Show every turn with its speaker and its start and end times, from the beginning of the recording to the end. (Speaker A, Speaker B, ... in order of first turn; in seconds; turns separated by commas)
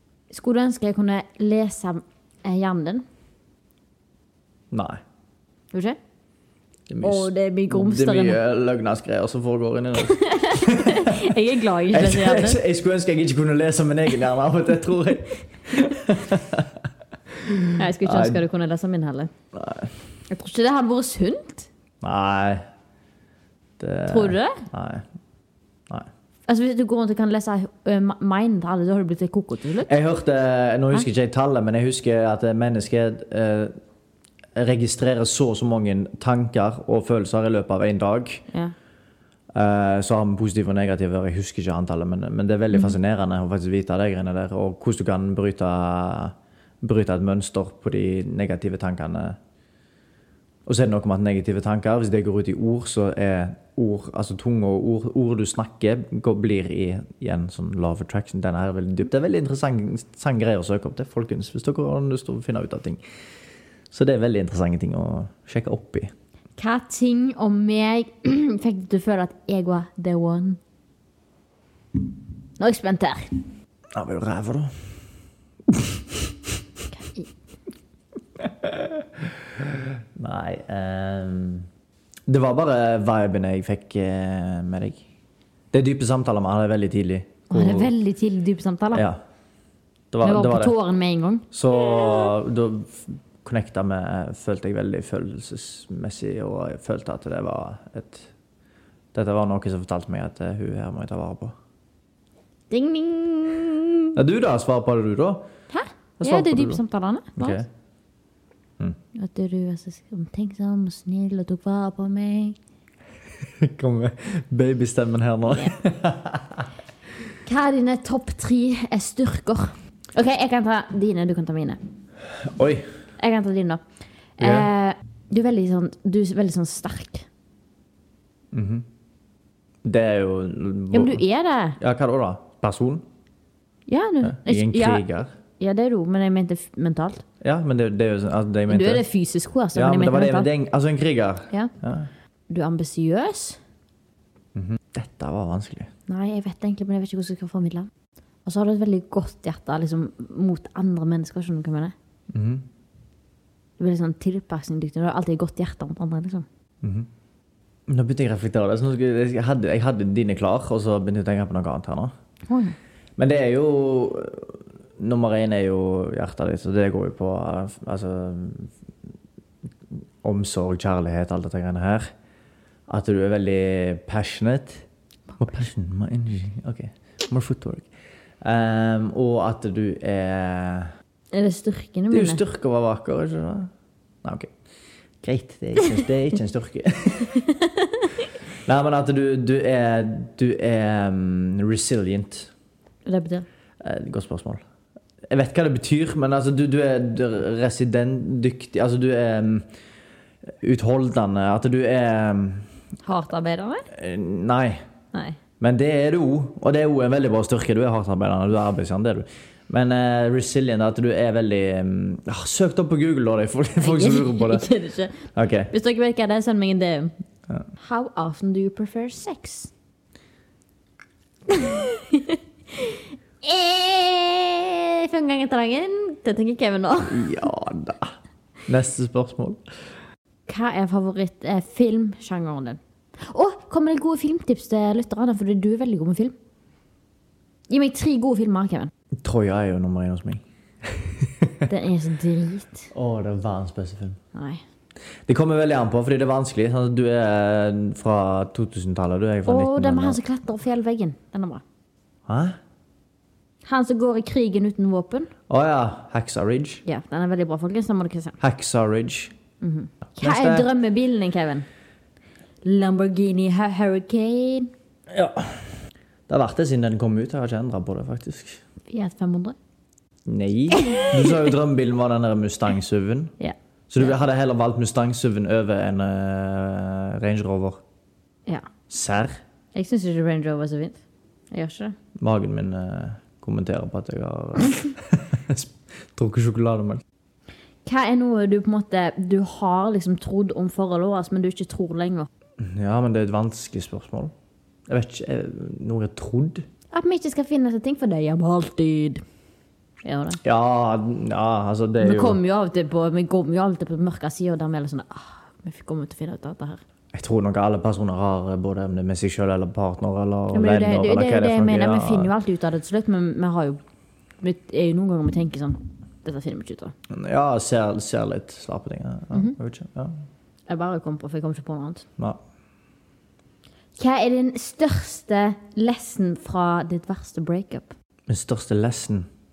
Speaker A: 0.3-3.0, Speaker B: 4.7-5.0, Speaker A: 5.7-6.0, Speaker B: 6.9-11.3, Speaker A: 7.0-8.4, Speaker A: 10.0-12.6, Speaker B: 11.9-16.8, Speaker B: 17.5-18.4, Speaker A: 17.8-19.3, Speaker B: 19.5-19.9, Speaker A: 20.3-21.7, Speaker B: 22.0-22.6, Speaker B: 23.8-25.1, Speaker A: 24.1-24.6, Speaker A: 26.5-29.9, Speaker B: 29.9-33.7, Speaker B: 34.5-38.4, Speaker B: 39.5-49.4, Speaker B: 50.7-63.0, Speaker B: 63.9-66.1, Speaker A: 66.6-70.6, Speaker A: 72.6-73.3, Speaker B: 73.9-74.7, Speaker B: 75.7-76.2, Speaker A: 77.0-77.3, Speaker B: 78.4-81.7, Speaker B: 82.3-85.0, Speaker B: 85.7-87.9, Speaker A: 87.5-89.0, Speaker B: 88.9-89.2, Speaker B: 90.1-90.8, Speaker A: 90.2-92.3, Speaker B: 91.5-98.3, Speaker B: 99.1-101.5, Speaker A: 102.7-104.2, Speaker B: 104.2-105.5, Speaker A: 105.7-107.6, Speaker B: 106.2-106.8, Speaker B: 107.4-107.7, Speaker A: 109.2-112.6, Speaker B: 113.5-116.7, Speaker A: 117.5-121.8, Speaker B: 122.4-122.9, Speaker A: 123.2-123.8, Speaker A: 124.4-127.3, Speaker B: 124.4-124.7, Speaker B: 128.5-128.9, Speaker B: 129.8-131.2, Speaker A: 130.9-131.8, Speaker B: 131.8-133.0, Speaker A: 133.9-135.1, Speaker B: 134.2-135.3, Speaker A: 135.6-137.2, Speaker B: 137.4-139.0, Speaker A: 138.7-140.5, Speaker B: 139.8-142.1, Speaker A: 142.5-143.6, Speaker B: 144.6-145.9, Speaker A: 146.1-147.9, Speaker A: 148.4-151.9, Speaker B: 152.3-152.7, Speaker A: 153.8-156.5, Speaker B: 156.8-157.1, Speaker B: 157.9-162.1, Speaker A: 162.5-162.8, Speaker B: 163.2-168.7, Speaker B: 170.2-172.1, Speaker B: 172.9-174.8, Speaker B: 175.4-177.9, Speaker B: 178.4-180.9, Speaker A: 181.3-182.4, Speaker B: 182.1-183.7, Speaker B: 184.2-184.5, Speaker B: 185.2-187.4, Speaker A: 187.3-188.1, Speaker B: 188.7-192.5, Speaker A: 193.1-193.5, Speaker B: 193.8-194.6, Speaker B: 195.3-199.7, Speaker B: 200.6-202.7, Speaker A: 203.0-203.9, Speaker B: 203.9-204.8, Speaker B: 205.6-214.7, Speaker A: 213.8-217.1, Speaker B: 215.3-215.7, Speaker A: 217.8-219.7, Speaker A: 221.5-227.3, Speaker B: 227.1-228.2, Speaker B: 228.7-229.6, Speaker A: 230.5-236.3, Speaker A: 237.7-238.9, Speaker B: 239.2-241.7, Speaker A: 241.7-242.9, Speaker B: 242.9-244.2, Speaker A: 244.3-244.6, Speaker B: 245.3-250.2, Speaker A: 249.5-251.6, Speaker B: 252.3-252.6, Speaker A: 253.7-255.3, Speaker B: 255.5-256.8, Speaker A: 256.9-258.4, Speaker B: 258.4-259.3, Speaker A: 259.6-261.7, Speaker B: 260.2-260.7, Speaker A: 262.6-264.7, Speaker B: 265.1-265.8, Speaker B: 266.3-268.6, Speaker A: 268.9-269.6, Speaker B: 270.3-273.3, Speaker A: 270.7-271.2, Speaker A: 273.4-274.1, Speaker B: 273.9-277.8, Speaker B: 278.9-279.4, Speaker A: 279.7-281.0, Speaker A: 281.5-282.0, Speaker B: 282.2-287.0, Speaker A: 287.9-292.3, Speaker B: 292.6-294.3, Speaker B: 294.9-296.7, Speaker A: 296.9-299.2, Speaker A: 300.1-300.4, Speaker B: 300.4-302.4, Speaker A: 302.0-306.8, Speaker B: 307.1-312.3, Speaker A: 310.5-313.8, Speaker A: 314.4-316.9, Speaker B: 317.1-320.2, Speaker A: 320.7-322.1, Speaker A: 324.0-327.9, Speaker B: 328.3-329.3